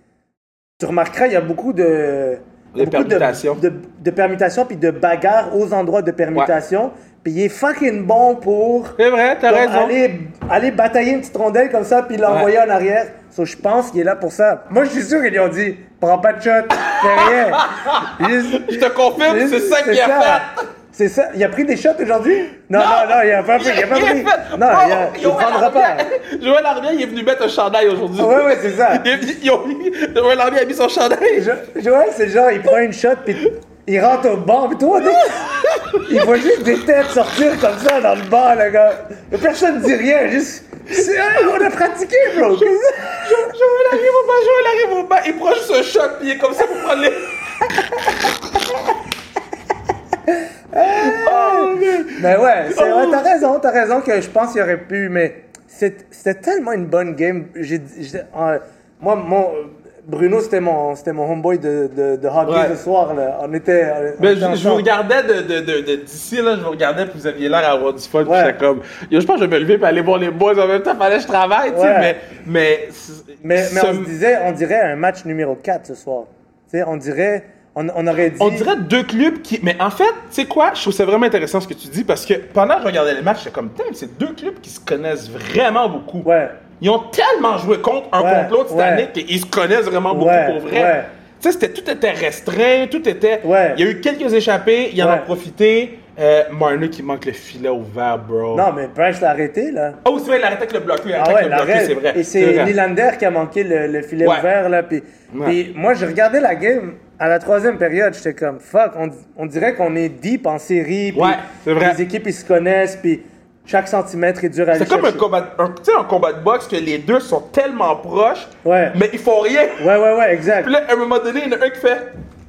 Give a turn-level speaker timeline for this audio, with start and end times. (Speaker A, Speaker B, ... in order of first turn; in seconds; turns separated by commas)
Speaker A: 0.8-26.1, Speaker B: 2.7-3.6, Speaker B: 9.0-10.0, Speaker B: 16.8-20.5, Speaker B: 22.7-31.5, Speaker A: 28.2-29.1, Speaker A: 31.3-43.5, Speaker B: 35.0-36.3, Speaker B: 41.0-41.5, Speaker B: 42.3-48.2, Speaker A: 50.3-64.8, Speaker B: 50.8-53.3, Speaker B: 62.5-62.8, Speaker B: 64.2-74.1, Speaker A: 68.2-68.6, Speaker A: 71.7-72.2, Speaker A: 73.4-78.7, Speaker B: 78.4-86.3, Speaker A: 86.2-86.6, Speaker B: 86.8-98.7, Speaker A: 88.2-89.1, Speaker A: 90.1-91.1, Speaker A: 93.4-93.8, Speaker A: 95.0-95.3, Speaker A: 98.5-100.0, Speaker B: 100.0-102.7, Speaker A: 101.2-115.2, Speaker B: 105.3-105.6, Speaker B: 111.1-112.0, Speaker B: 114.7-119.9, Speaker A: 118.6-119.0, Speaker A: 119.8-120.7, Speaker B: 120.6-122.1